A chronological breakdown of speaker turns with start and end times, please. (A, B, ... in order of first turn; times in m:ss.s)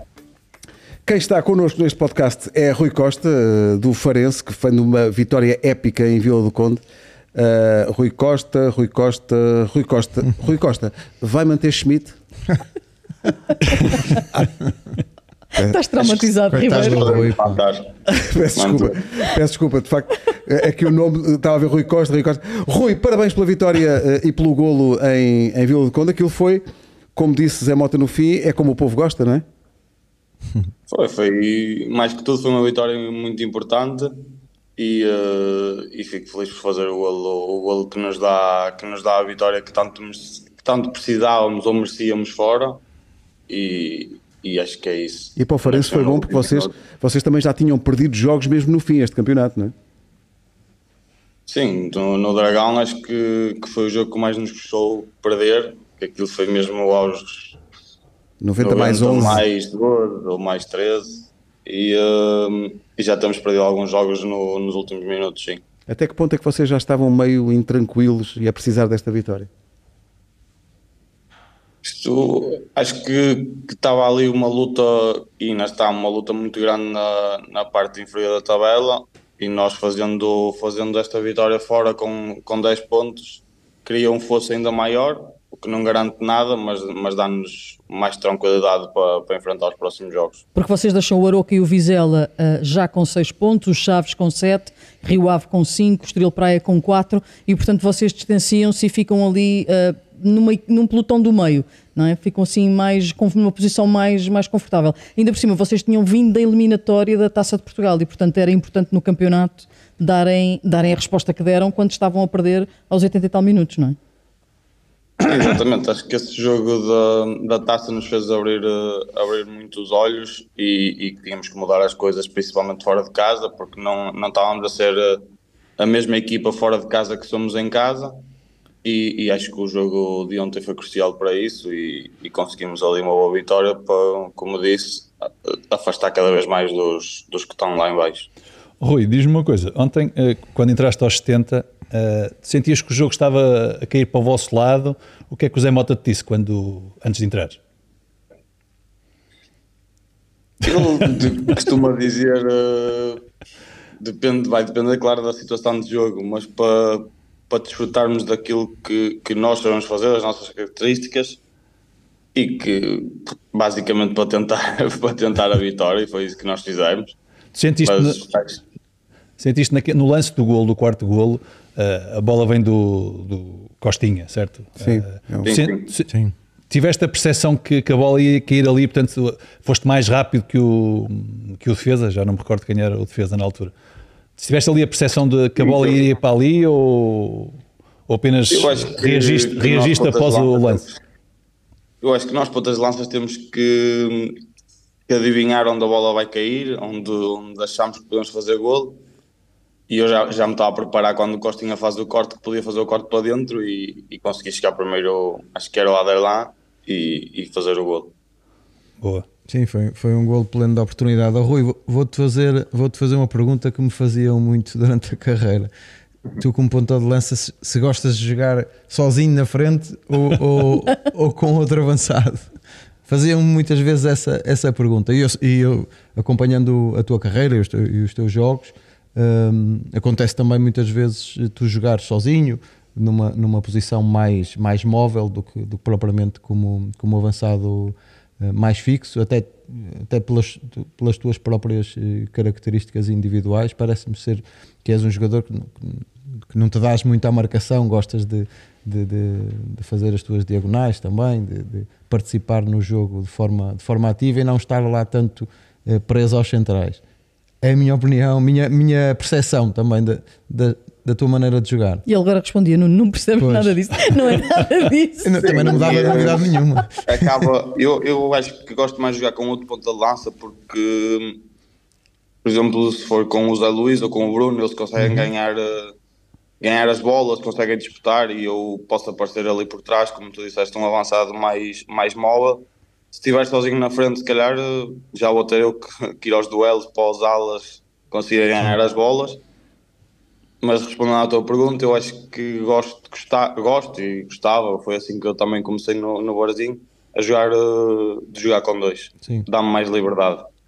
0:01.0-0:06.8 A
0:07.3-0:12.2 A
0:13.8-0:14.5 A
0:15.5-0:16.1 A
0:15.5-0:17.3 B
0:16.5-0:17.6 C
0:16.6-0:17.9 D
0:18.1-0:29.4 A
0:18.5-0:19.0 D
0:30.9-0:42.8 D
0:43.5-0:46.7 D
0:45.4-0:49.7 A
0:51.5-0:57.6 D
0:58.4-0:59.4 A
0:58.6-1:05.6 D
1:05.9-1:09.5 A
1:11.8-1:30.4 D
1:30.5-1:54.0 B
1:55.2-2:05.2 D
2:05.8-2:08.2 D
2:08.8-2:18.3 D
2:18.8-2:27.6 E
2:30.6-2:33.2 D
2:34.0-2:41.4 D
2:42.3-2:47.1 D
2:47.5-2:48.2 E
2:47.8-2:48.6 D
2:49.4-2:56.1 E
2:54.8-2:55.5 A
2:55.4-2:55.9 D
2:56.7-3:03.7 E
3:04.4-3:07.6 E
3:08.1-3:10.8 E
3:08.5-3:11.0 D
3:12.0-3:14.4 D
3:15.1-3:19.0 D
3:19.9-3:28.1 D
3:29.0-3:29.2 E
3:29.5-3:35.7 C
3:36.4-3:42.4 C
3:43.1-4:17.0 C
4:17.6-4:22.0 C
4:22.1-4:25.9 B
4:23.4-4:23.8 C
4:25.2-4:27.4 C
4:25.4-4:31.4 D
4:32.4-4:35.9 D
4:36.6-4:49.4 D
4:50.6-5:00.5 D